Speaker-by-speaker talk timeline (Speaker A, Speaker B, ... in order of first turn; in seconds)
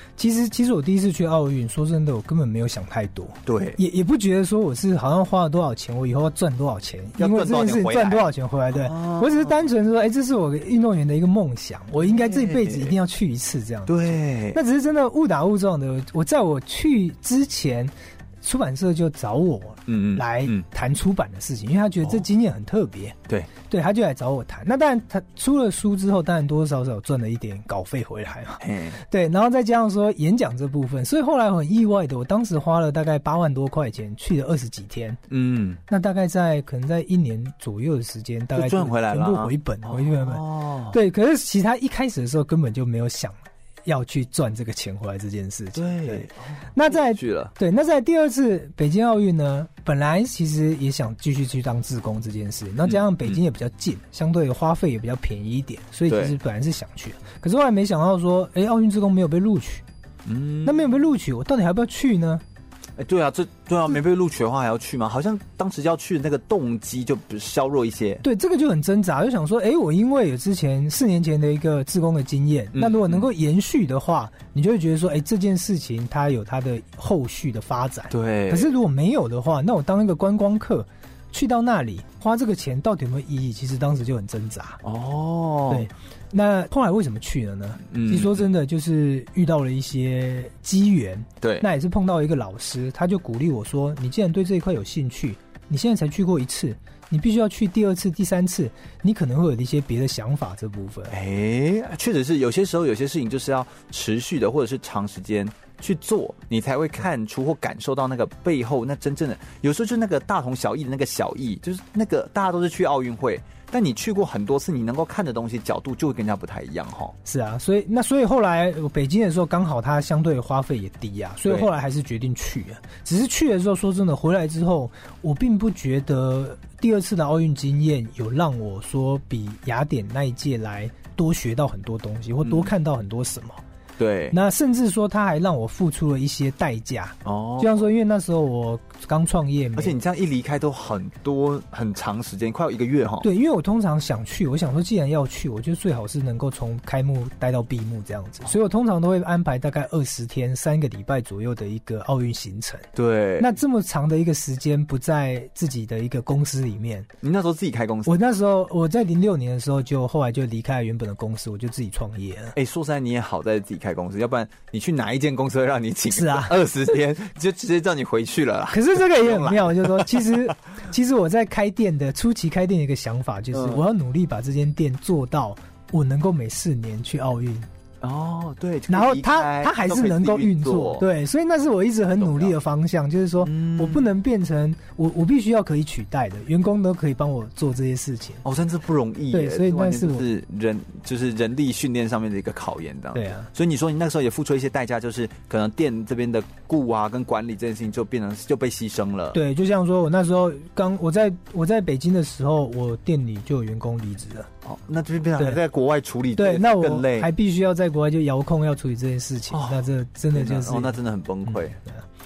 Speaker A: 0.2-23.2, 23.7-35.2, 35.9-59.8, 60.6-62.4, 68.2-84.8, 85.7-101.1, 117.2-133.6, 134.3-140.0, 143.2-152.9, 153.4-157.1, 158.1-162.5, 166.1-166.6, 168.7-177.7, 178.9-188.4, 189.3-190.2, 193.1-193.5, 199.3-204.5, 206.3-212.0
Speaker B: 3.5-3.8, 7.2-9.6, 12.0-12.9, 13.9-14.6, 19.9-20.6, 28.6-29.0, 35.3-35.8, 38.5-41.0, 45.8-47.5, 52.8-53.4, 56.1-56.4, 60.2-60.9, 63.0-68.2, 72.7-73.3, 78.1-78.7, 84.8-85.9, 87.9-88.5, 91.4-91.7, 101.1-117.2, 132.4-132.7, 134.0-134.4, 137.2-137.9, 139.8-143.3, 152.9-153.5, 157.2-158.2, 162.5-170.4, 173.5-173.8, 178.0-181.1, 182.2-182.5, 183.4-184.1, 188.4-199.4, 204.6-207.3, 209.5-211.8